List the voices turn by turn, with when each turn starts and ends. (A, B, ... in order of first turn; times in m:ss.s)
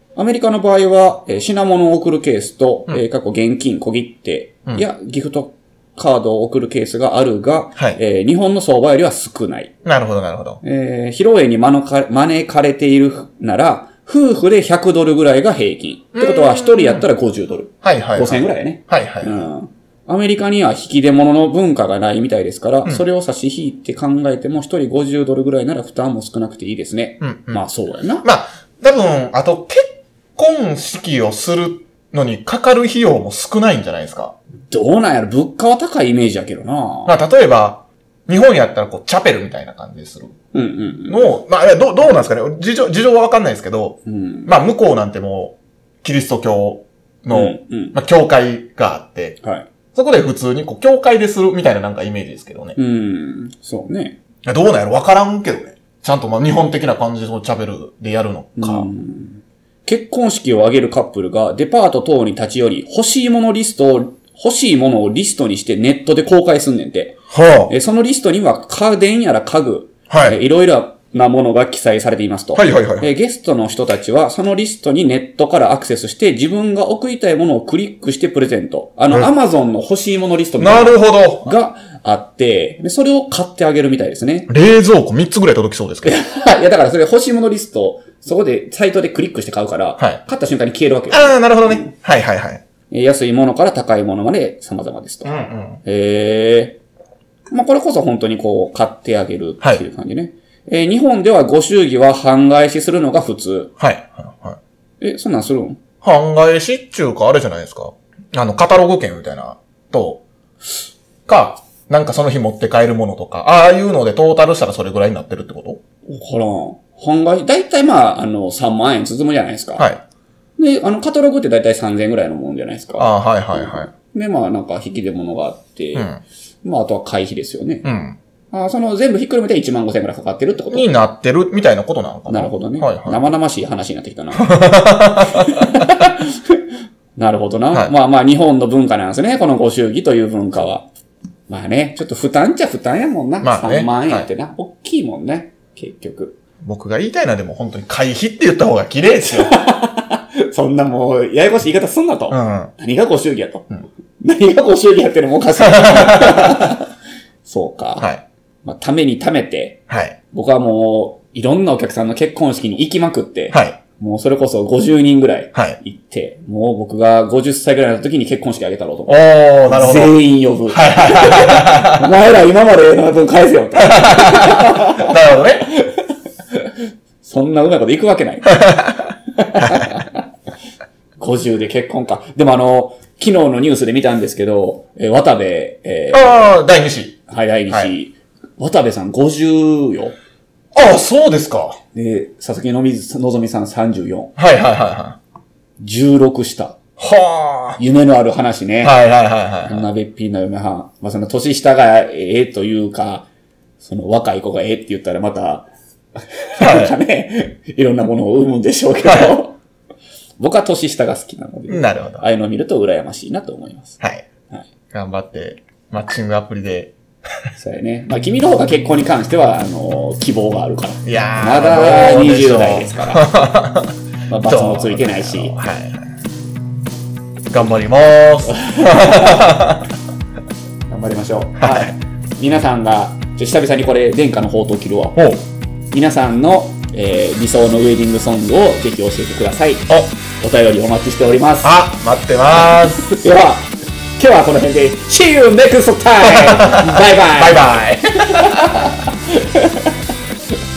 0:00.1-0:09.7 A
0:09.8-0:10.6 B
0:10.6-0:28.2 A
0:16.1-0:17.1 B
0:17.8-0:19.4 B
0:27.2-0:27.6 B
0:28.2-0:34.4 B
0:34.7-0:37.1 A
0:37.1-0:40.3 B
0:40.5-0:41.3 A
0:41.1-0:49.4 B
0:44.1-0:44.5 A
0:47.3-0:47.9 A
0:49.4-0:49.7 A
0:49.9-0:52.8 B
0:52.8-0:54.2 A
0:54.4-0:58.9 B
0:58.6-1:24.5 A
1:07.3-1:07.7 B
1:10.1-1:10.4 B
1:12.5-1:13.1 B
1:20.6-1:21.5 B
1:24.5-1:26.2 B
1:26.0-1:31.9 A
1:31.1-1:32.6 B
1:32.9-1:36.8 A
1:35.2-1:35.8 B
1:37.5-1:43.7 A
1:43.8-1:44.6 B
1:45.0-1:45.8 A
1:46.0-1:50.2 B
1:51.3-1:55.8 B
1:56.1-1:59.8 A
2:00.6-2:06.1 A
2:03.0-2:03.9 B
2:05.9-2:06.2 B
2:06.6-2:07.8 A
2:07.8-2:08.2 B
2:08.5-2:10.9 A
2:10.7-2:13.3 B
2:12.3-2:14.5 A
2:14.4-2:15.9 B
2:15.3-2:16.6 A
2:17.2-2:20.8 A
2:21.5-2:26.4 A
2:23.4-2:24.3 B
2:26.6-2:29.6 B
2:29.2-2:33.7 A
2:32.3-2:32.7 B
2:34.2-2:36.9 A
2:35.6-2:36.7 B
2:37.4-2:38.1 A
2:38.0-2:38.2 B
2:38.6-2:39.8 A
2:39.9-2:40.2 B
2:40.3-2:56.7 A
2:43.5-2:43.8 B
2:49.1-2:50.1 B
2:50.7-2:52.1 B
2:53.8-2:55.7 B
2:57.2-3:00.2 A
2:58.5-2:59.0 B
2:59.6-2:59.9 B
3:01.2-3:06.6 A
3:06.1-3:07.9 B
3:07.3-3:10.2 A
3:10.7-3:11.8 B
3:11.9-3:14.3 A
3:14.4-3:15.2 B
3:15.8-3:16.8 A
3:17.0-3:17.8 B
3:17.8-3:19.0 A
3:18.8-3:19.9 B
3:19.6-3:23.3 A
3:23.8-3:29.6 A
3:26.6-3:27.0 B
3:29.0-3:29.4 B
3:30.4-3:34.0 A
3:31.7-3:32.2 B
3:34.9-3:36.9 B
3:37.6-3:43.3 A
3:41.0-3:46.1 B
3:44.3-3:45.5 A
3:47.5-3:49.9 B
3:48.5-3:49.5 A
3:50.9-3:55.2 A
3:51.6-3:51.9 B
3:55.2-3:55.4 B
3:55.9-4:01.7 A
4:01.6-4:03.1 B
4:02.5-4:10.0 A
4:06.2-4:08.8 B